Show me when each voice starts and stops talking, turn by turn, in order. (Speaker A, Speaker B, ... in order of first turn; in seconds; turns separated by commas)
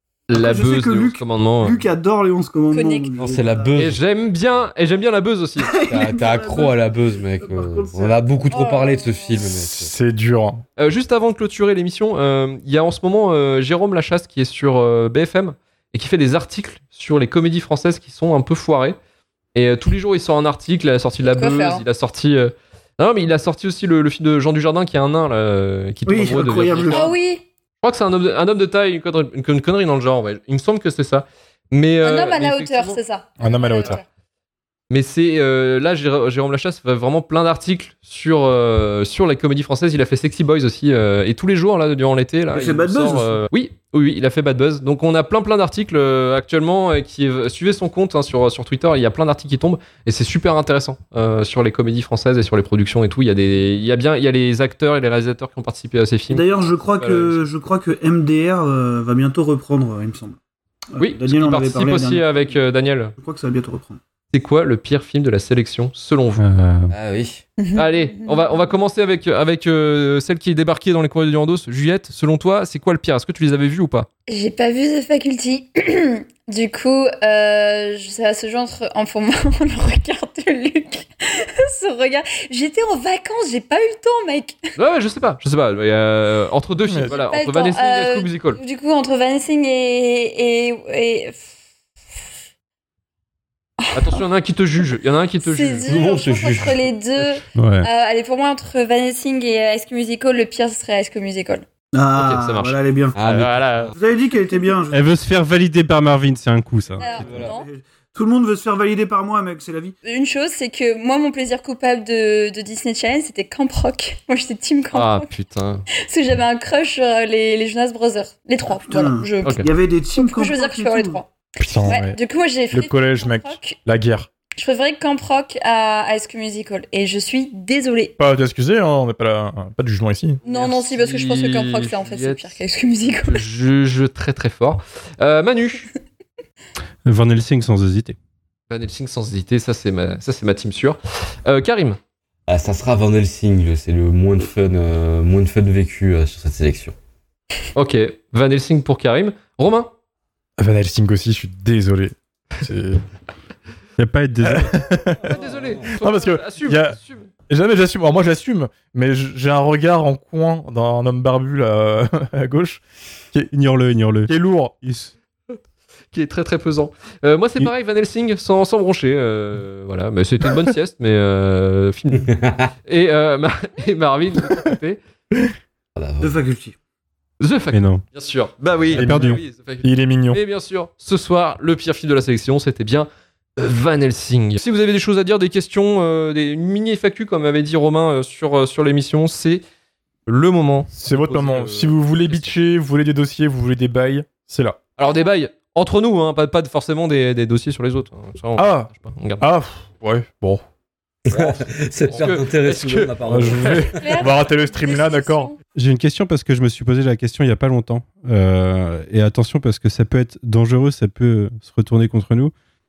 Speaker A: 0.3-1.8, Speaker B: 0.3-3.8, Speaker C: 2.7-3.1, Speaker D: 3.2-4.0, Speaker A: 3.8-5.7, Speaker B: 5.6-8.2, Speaker D: 5.9-9.9, Speaker C: 8.5-9.4, Speaker E: 9.4-10.6, Speaker A: 10.8-19.0, Speaker A: 19.6-27.1, Speaker C: 21.3-21.8, Speaker B: 26.1-27.1, Speaker C: 26.9-27.4, Speaker A: 27.8-33.0, Speaker C: 32.0-34.0, Speaker E: 33.4-34.0, Speaker A: 34.9-57.5, Speaker B: 42.5-43.4, Speaker B: 56.3-60.4, Speaker B: 60.9-62.6, Speaker A: 61.0-63.1, Speaker B: 63.2-64.0, Speaker A: 64.3-66.4, Speaker F: 66.4-66.9, Speaker D: 66.9-67.4, Speaker C: 67.6-68.5, Speaker A: 67.8-74.1, Speaker C: 74.3-84.6, Speaker A: 84.8-88.6, Speaker E: 86.9-87.1, Speaker C: 87.1-91.4, Speaker C: 93.8-94.2, Speaker A: 93.9-96.0, Speaker C: 95.4-101.7, Speaker D: 95.8-96.9, Speaker F: 97.6-97.9, Speaker B: 101.9-103.2, Speaker A: 102.2-104.0, Speaker D: 103.2-103.9, Speaker B: 104.0-105.1, Speaker F: 104.9-107.2, Speaker C: 107.0-107.7, Speaker B: 107.0-110.0, Speaker D: 107.2-107.5, Speaker C: 110.0-115.3, Speaker A: 114.9-115.9, Speaker C: 116.0-123.8, Speaker B: 118.7-121.2, Speaker E: 121.6-122.2, Speaker E: 122.7-124.3, Speaker C: 124.6-128.2, Speaker E: 128.2-130.4, Speaker A: 130.4-132.5, Speaker C: 130.4-133.4, Speaker A: 133.1-135.9, Speaker F: 137.1-138.2, Speaker A: 138.7-142.0, Speaker D: 142.5-147.0, Speaker A: 147.8-149.9, Speaker E: 150.6-153.0, Speaker F: 154.0-154.8, Speaker E: 154.4-157.0, Speaker A: 155.2-157.3, Speaker D: 155.3-155.9, Speaker E: 157.5-162.8, Speaker F: 163.5-165.1, Speaker E: 164.3-164.8, Speaker A: 166.1-175.0, Speaker D: 172.3-172.7, Speaker D: 176.0-176.4, Speaker B: 176.2-176.8, Speaker A: 177.4-189.6, Speaker F: 177.7-178.0, Speaker E: 178.9-180.4, Speaker F: 178.9-179.4, Speaker A: 190.3-192.6, Speaker E: 191.0-194.8, Speaker A: 195.0-199.4, Speaker E: 198.6-198.9, Speaker E: 199.4-200.6, Speaker D: 201.3-203.9, Speaker A: 201.3-203.9, Speaker E: 203.3-205.6, Speaker C: 203.9-205.6, Speaker F: 205.8-212.5